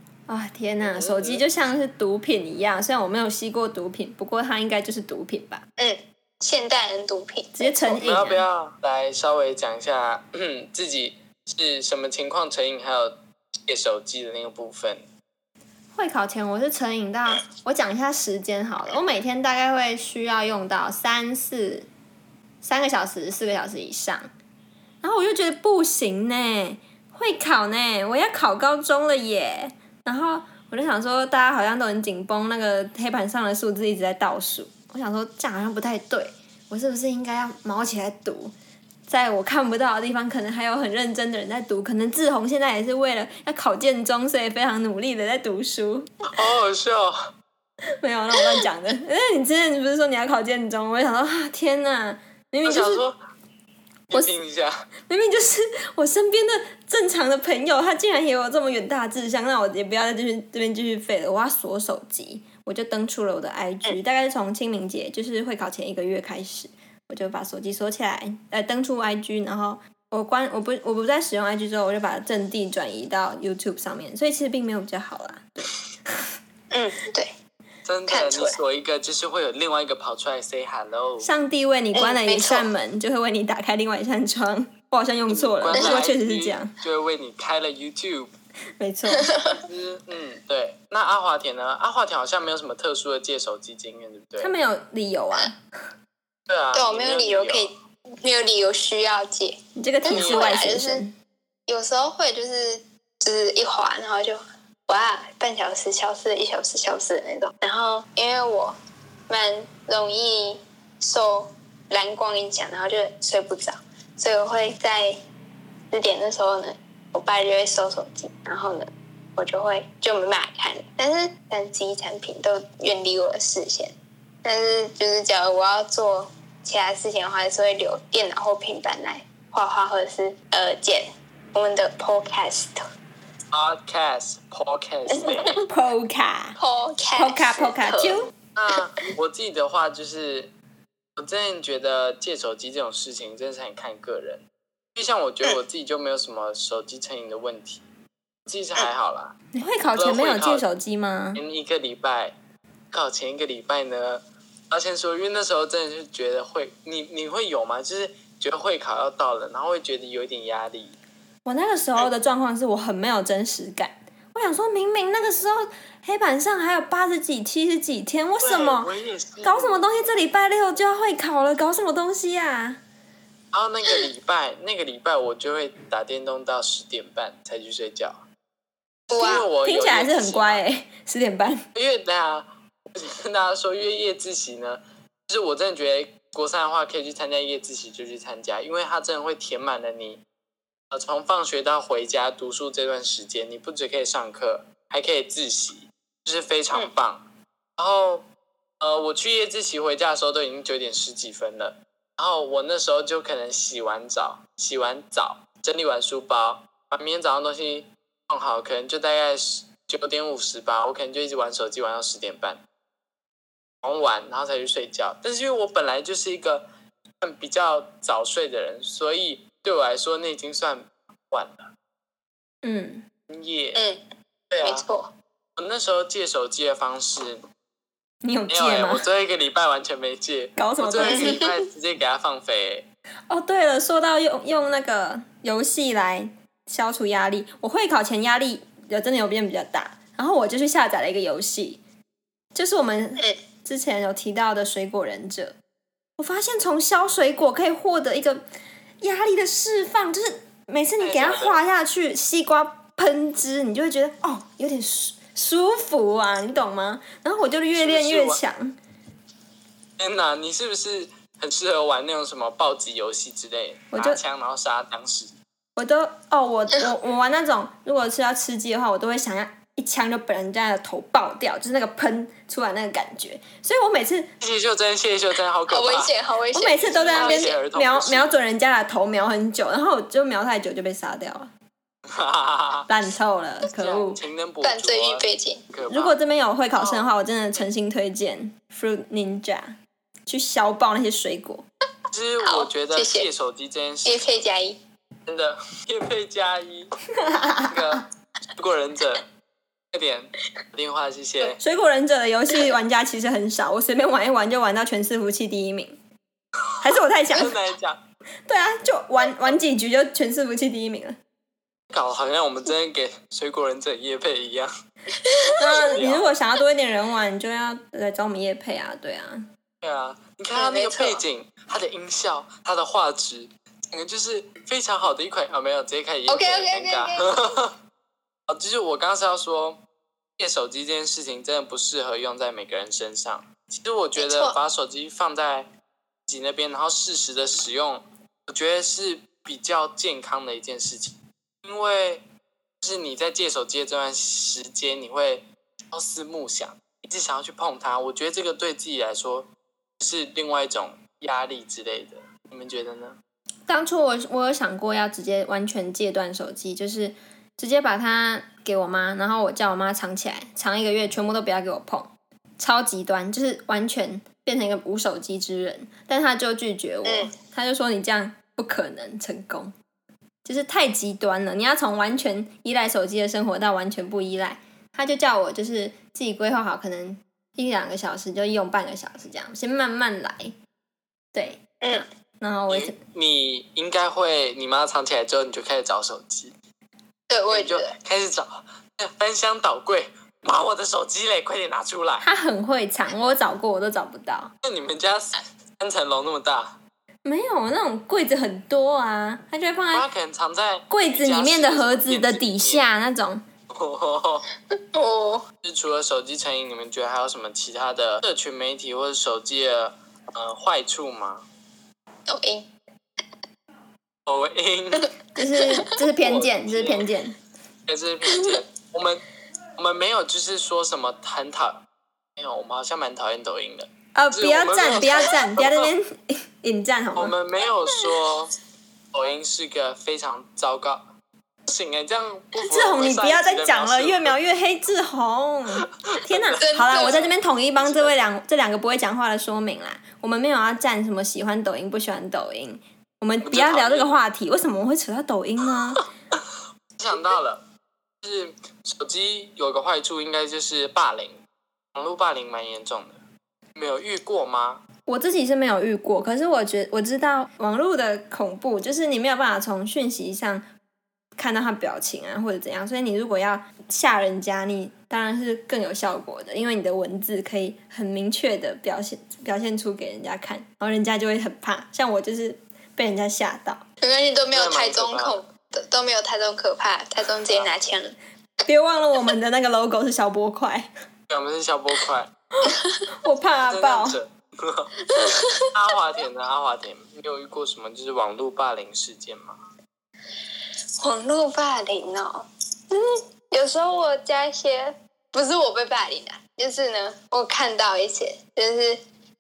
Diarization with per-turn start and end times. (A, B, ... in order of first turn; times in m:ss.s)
0:00.3-0:05.6 A
0:00.8-0:01.4 B
0:05.8-0:08.0 C
0:07.6-0:08.4 A
0:08.0-0:13.2 B
0:13.7-0:15.0 B
0:15.9-0:21.9 A
0:22.6-0:24.3 A
0:25.0-0:38.5 A
0:39.1-0:46.2 A
0:46.3-0:47.2 B
0:48.0-0:53.0 A
0:52.6-0:53.2 B
0:54.1-0:54.8 B
0:55.1-1:15.7 A
1:16.7-1:17.3 C
1:17.8-1:21.3 B
1:18.1-1:18.6 C
1:21.2-1:26.8 A
1:21.9-1:22.7 C
1:25.3-1:28.3 B
1:25.7-1:26.0 C
1:28.8-1:29.3 A
1:29.1-1:29.6 C
1:29.4-1:34.5 B
1:34.4-1:35.6 A
1:36.5-1:37.7 B
1:36.7-1:41.0 C
1:39.8-1:41.1 A
1:40.1-1:40.5 B
1:41.7-1:48.8 C
1:49.3-1:55.2 C
1:55.9-2:12.8 C
2:13.5-2:15.6 B
2:15.6-2:16.6 A
2:16.6-2:18.2 C
2:17.1-2:18.3 A
2:18.5-2:20.5 B
2:21.2-2:27.8 B
2:28.4-2:29.3 B
2:29.5-2:31.4 A
2:30.0-2:30.6 B
2:31.3-2:32.3 B
2:32.9-2:40.9 B
2:41.4-2:48.9 A
2:48.4-2:49.8 B
2:49.4-2:52.8 A
2:53.5-2:58.2 B
2:59.1-2:59.5 C
2:59.1-3:00.6 B
2:59.6-3:01.6 A
3:01.7-3:10.2 B
3:10.9-3:17.2 B
3:17.8-3:18.2 B
3:18.8-3:32.6 B
3:33.8-3:36.6 B
3:37.2-3:41.7 B
3:42.6-3:43.0 A
3:43.3-3:43.8 B
3:43.7-3:44.0 C
3:44.5-3:44.8 B
3:44.6-3:45.1 C
3:45.6-3:47.4 B
3:48.2-3:49.0 A
3:48.5-3:52.9 B
3:50.6-3:51.4 A
3:51.0-3:51.6 C
3:53.3-4:01.8 A
4:02.5-4:05.5 A
4:06.2-4:08.4 A
4:09.0-4:18.8 A
4:11.0-4:11.6 B
4:17.7-4:18.4 B
4:20.0-4:25.3 B
4:23.9-4:24.2 A
4:25.8-4:34.3 A
4:34.4-4:36.1 B
4:35.7-4:37.5 C
4:36.5-4:41.5 A
4:36.8-4:38.4 B
4:42.1-4:42.9 B
4:42.9-4:44.2 A
4:43.6-4:46.2 B
4:44.6-4:45.6 C
4:45.9-4:49.7 A
4:46.8-4:47.1 B
4:50.3-4:51.6 A
4:52.1-4:54.4 B
4:52.4-4:53.3 C
4:54.0-4:54.8 C
4:55.3-4:56.9 B
4:57.2-4:58.0 A
4:57.7-4:58.0 B
4:58.6-4:59.2 B
4:59.9-5:01.6 B
5:01.4-5:06.0 A
5:06.8-5:07.5 A
5:07.3-5:08.0 B
5:08.5-5:11.2 A
5:11.9-5:14.7 B
5:15.4-5:15.8 C
5:15.6-5:19.4 A
5:15.6-5:16.3 B
5:19.8-5:27.7 B
5:20.5-5:21.2 C
5:26.3-5:27.5 C
5:28.5-5:29.8 B
5:30.4-5:35.7 B
5:34.2-5:34.6 C
5:36.3-5:42.2 B
5:42.8-5:53.2 B
5:53.7-6:09.7 A
6:07.0-6:07.3 C
6:10.4-6:20.5 A
6:21.3-6:22.9 A
6:22.7-6:26.5 B
6:27.3-6:27.9 C
6:27.5-6:32.2 B
6:32.2-6:34.5 A
6:34.6-6:36.8 B
6:37.2-6:40.1 A
6:39.9-6:42.8 B
6:40.9-6:43.4 A
6:43.7-6:44.5 B
6:44.9-6:45.4 C
6:45.6-6:51.4 B
6:52.3-6:52.7 C
6:54.2-6:55.1 B
6:55.4-6:57.4 A
6:56.1-6:57.1 B
6:57.9-6:59.2 B
6:58.3-6:58.6 C
6:59.8-7:01.8 B
7:02.4-7:05.9 B
7:04.1-7:07.4 A
7:07.1-7:08.5 B
7:09.1-7:11.0 B
7:11.6-7:14.4 B
7:12.7-7:26.0 A
7:16.1-7:18.3 B
7:16.5-7:17.3 C
7:23.4-7:24.2 B
7:26.0-7:26.4 B
7:27.0-7:27.6 B
7:28.2-7:31.4 B
7:31.9-7:33.2 B
7:33.8-7:34.8 B
7:35.1-7:40.6 A
7:41.4-7:53.8 A
7:54.0-7:58.2 C
7:54.5-7:55.4 B
7:58.6-8:00.9 A
8:01.3-8:02.3 B
8:02.6-8:04.2 A
8:02.6-8:03.0 C
8:03.7-8:04.9 B
8:05.1-8:05.6 C
8:05.7-8:09.6 B
8:11.0-8:19.0 C